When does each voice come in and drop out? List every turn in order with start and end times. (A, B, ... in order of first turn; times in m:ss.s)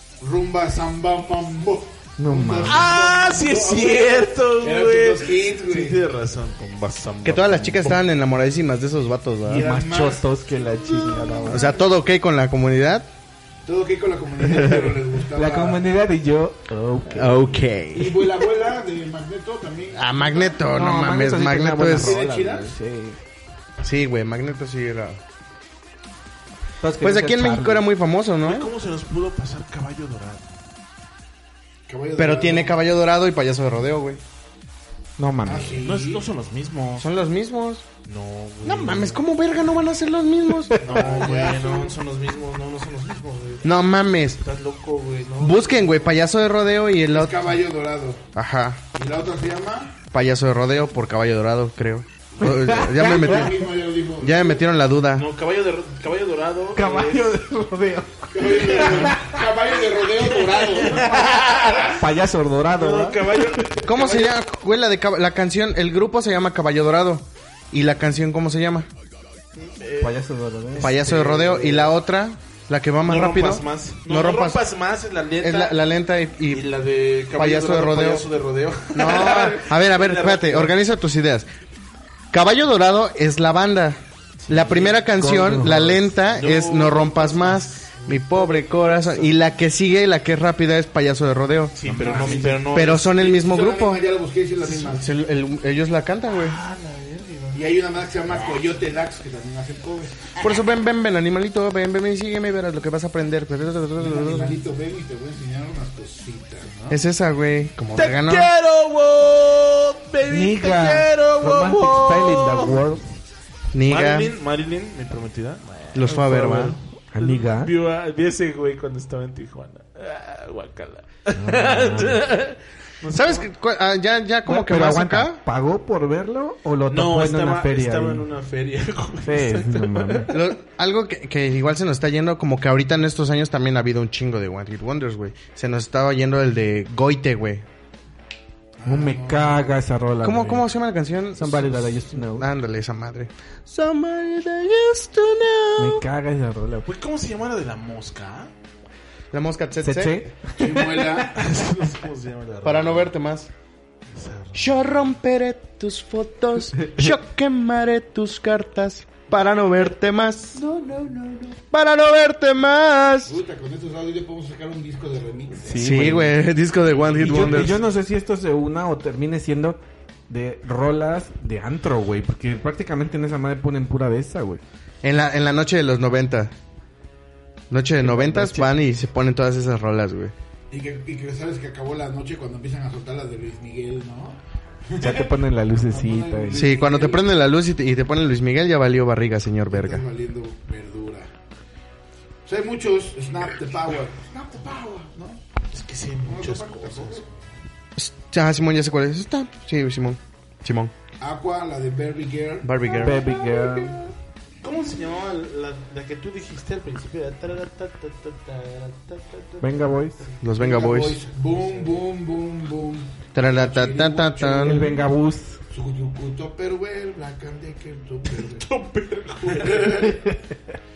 0:00.2-0:06.0 A
0:02.2-0:02.9 B
0:02.7-0:08.0 C
0:07.2-0:09.7 D
0:09.4-0:11.8 A
0:09.5-0:11.7 B
0:11.5-0:13.1 D
0:13.6-0:15.8 A
0:14.4-0:17.7 B
0:17.1-0:18.4 D
0:17.9-0:20.6 A
0:19.9-0:22.2 D
0:20.7-0:23.2 B
0:21.9-0:22.8 A
0:23.8-0:25.2 D
0:26.8-0:27.9 B
0:27.0-0:28.7 D
0:28.4-0:30.5 C
0:31.9-0:32.8 A
0:32.2-0:34.2 D
0:35.2-0:35.9 B
0:35.4-0:36.2 A
0:35.8-0:37.1 C
0:37.0-0:37.8 D
0:38.0-0:39.2 C
0:38.6-0:40.8 D
0:40.8-0:42.0 A
0:40.8-0:43.7 C
0:43.6-0:44.4 D
0:44.4-0:46.2 C
0:45.4-0:47.5 D
0:47.1-0:48.2 A
0:48.4-0:48.8 D
0:48.9-0:50.0 A
0:50.1-0:53.7 D
0:52.4-0:53.6 B
0:52.9-0:54.6 A
0:54.2-0:55.3 D
0:55.1-0:57.4 C
0:56.8-0:59.4 B
0:58.3-1:02.0 A
0:58.7-0:59.2 C
1:00.0-1:02.0 C
1:02.0-1:03.7 B
1:02.7-1:04.0 C
1:03.8-1:08.9 D
1:03.9-1:04.3 A
1:09.8-1:10.2 C
1:10.0-1:11.3 B
1:10.8-1:11.9 C
1:10.8-1:14.6 D
1:13.1-1:15.8 C
1:15.4-1:16.7 D
1:16.5-1:20.7 C
1:17.3-1:18.3 D
1:18.9-1:21.5 D
1:22.3-1:24.0 D
1:24.4-1:25.0 C
1:24.5-1:34.0 D
1:25.1-1:26.1 B
1:26.3-1:29.3 C
1:31.8-1:33.2 C
1:31.8-1:32.6 B
1:32.1-1:35.1 A
1:34.6-1:34.9 C
1:34.9-1:36.6 D
1:36.3-1:37.6 C
1:37.5-1:40.4 A
1:40.4-1:44.6 D
1:44.0-1:47.0 A
1:46.9-1:48.5 D
1:48.0-1:52.8 C
1:50.3-1:53.0 B
1:53.7-1:54.3 D
1:53.9-2:03.5 C
1:55.9-1:56.8 D
1:57.1-1:57.7 B
2:01.4-2:02.2 B
2:03.1-2:05.4 D
2:04.4-2:08.2 B
2:06.9-2:10.5 C
2:09.2-2:10.3 B
2:10.3-2:17.6 D
2:18.8-2:19.7 A
2:18.8-2:20.7 B
2:20.2-2:26.0 D
2:21.4-2:22.5 B
2:25.8-2:26.9 B
2:26.9-2:28.5 C
2:29.3-2:30.2 D
2:29.8-2:31.2 B
2:30.5-2:31.4 A
2:31.3-2:33.1 C
2:32.6-2:33.5 D
2:34.1-2:35.1 C
2:34.6-2:43.4 D
2:43.3-2:46.0 A
2:45.6-2:46.4 B
2:45.8-2:47.8 D
2:46.8-2:47.9 C
2:47.2-2:54.6 B
2:55.0-2:56.5 D
2:57.7-3:00.3 D
2:58.0-2:58.8 B
3:00.7-3:07.3 A
3:05.0-3:06.6 B
3:06.5-3:10.0 D
3:09.7-3:11.3 A
3:12.5-3:15.4 A
3:15.7-3:17.3 C
3:16.2-3:17.2 A
3:18.0-3:20.9 D
3:21.2-3:24.1 A
3:22.6-3:23.2 D
3:23.0-3:24.0 B
3:24.6-3:30.4 C
3:29.6-3:30.3 B
3:30.4-3:31.2 D
3:30.6-3:35.0 A
3:31.5-3:32.0 C
3:33.3-3:35.0 D
3:34.5-3:35.6 B
3:35.7-3:38.7 A
3:38.3-3:40.2 C
3:39.4-3:40.2 A